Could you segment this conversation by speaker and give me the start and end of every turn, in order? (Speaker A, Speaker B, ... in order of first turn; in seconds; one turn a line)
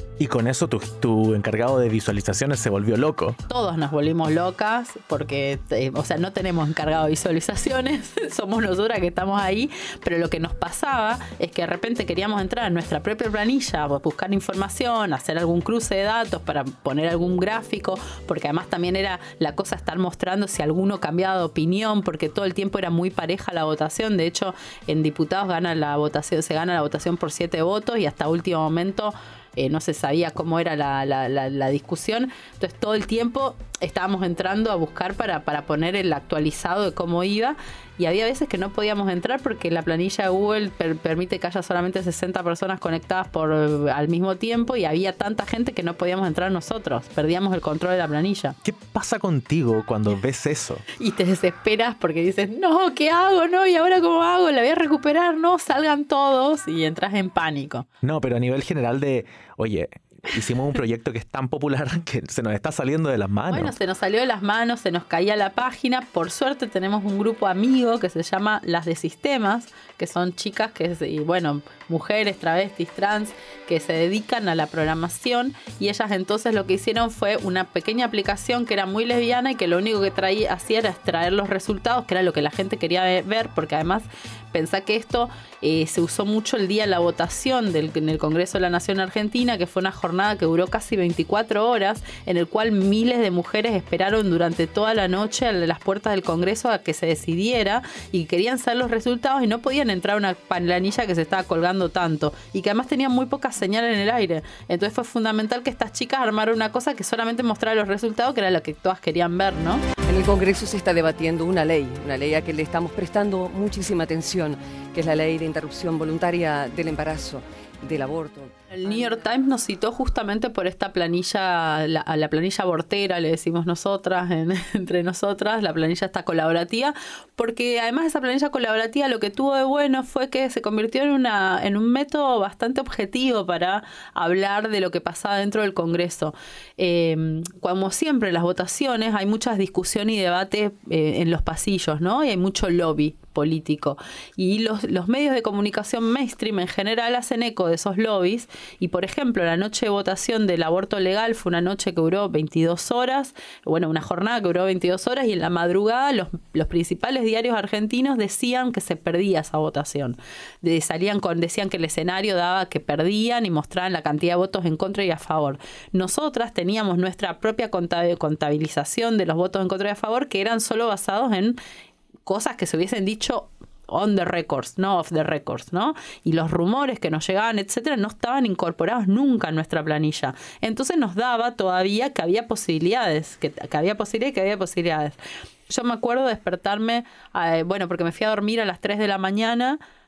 Speaker A: 0.2-3.4
Speaker B: 3.5-48.5
Speaker A: 48.6-50.8
Speaker B: 51.0-57.9
Speaker A: 58.0-63.7
Speaker B: 63.5-109.8
Speaker C: 110.0-119.2
Speaker B: 118.7-171.6
Speaker B: 172.2-185.2
Speaker B: 185.7-189.8